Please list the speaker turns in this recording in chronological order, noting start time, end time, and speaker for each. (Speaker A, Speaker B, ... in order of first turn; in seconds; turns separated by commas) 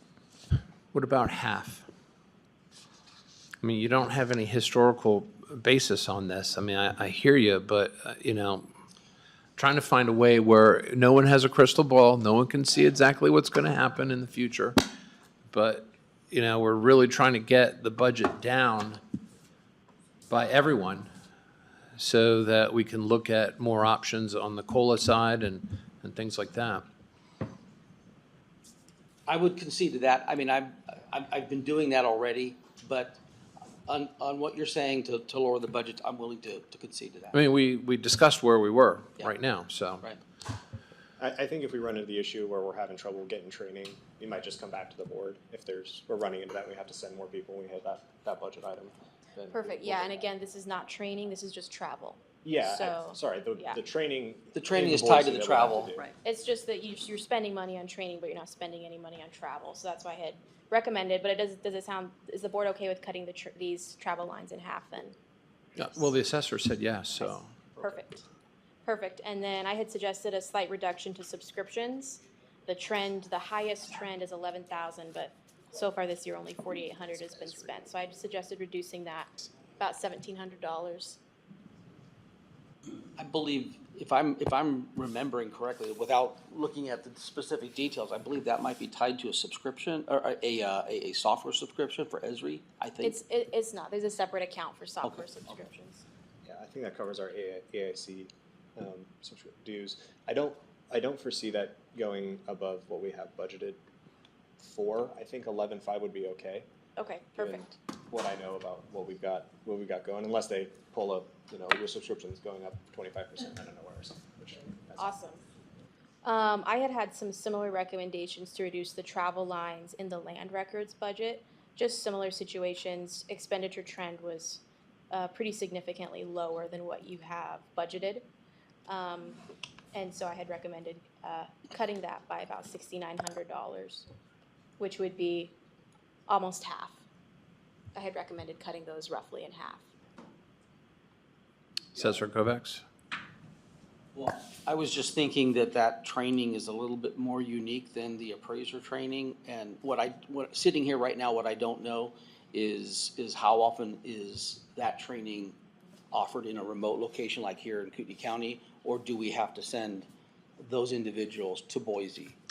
Speaker A: 0.9-1.9, Speaker A: 3.6-8.7, Speaker A: 9.6-14.8, Speaker A: 15.5-19.0, Speaker A: 20.3-21.1, Speaker A: 22.0-26.9, Speaker B: 29.3-33.2, Speaker B: 33.9-37.4, Speaker A: 37.4-40.0, Speaker C: 41.2-50.3, Speaker D: 49.5-53.8, Speaker C: 52.4-56.0, Speaker B: 54.5-56.1, Speaker D: 56.2-65.1, Speaker A: 66.0-67.5, Speaker D: 67.2-68.2, Speaker D: 68.8-81.2, Speaker C: 77.3-77.8, Speaker B: 83.2-93.2, Speaker D: 93.0-96.0, Speaker C: 96.5-103.8, Speaker C: 104.6-106.7, Speaker D: 107.0-107.7, Speaker C: 107.4-115.1, Speaker D: 115.0-115.4, Speaker D: 116.2-128.2, Speaker D: 128.9-129.4, Speaker D: 129.9-134.1, Speaker D: 134.8-135.5, Speaker D: 136.3-137.0, Speaker D: 137.9-139.8, Speaker A: 142.1-142.8, Speaker B: 144.2-155.5, Speaker B: 156.1-160.1, Speaker B: 160.6-162.3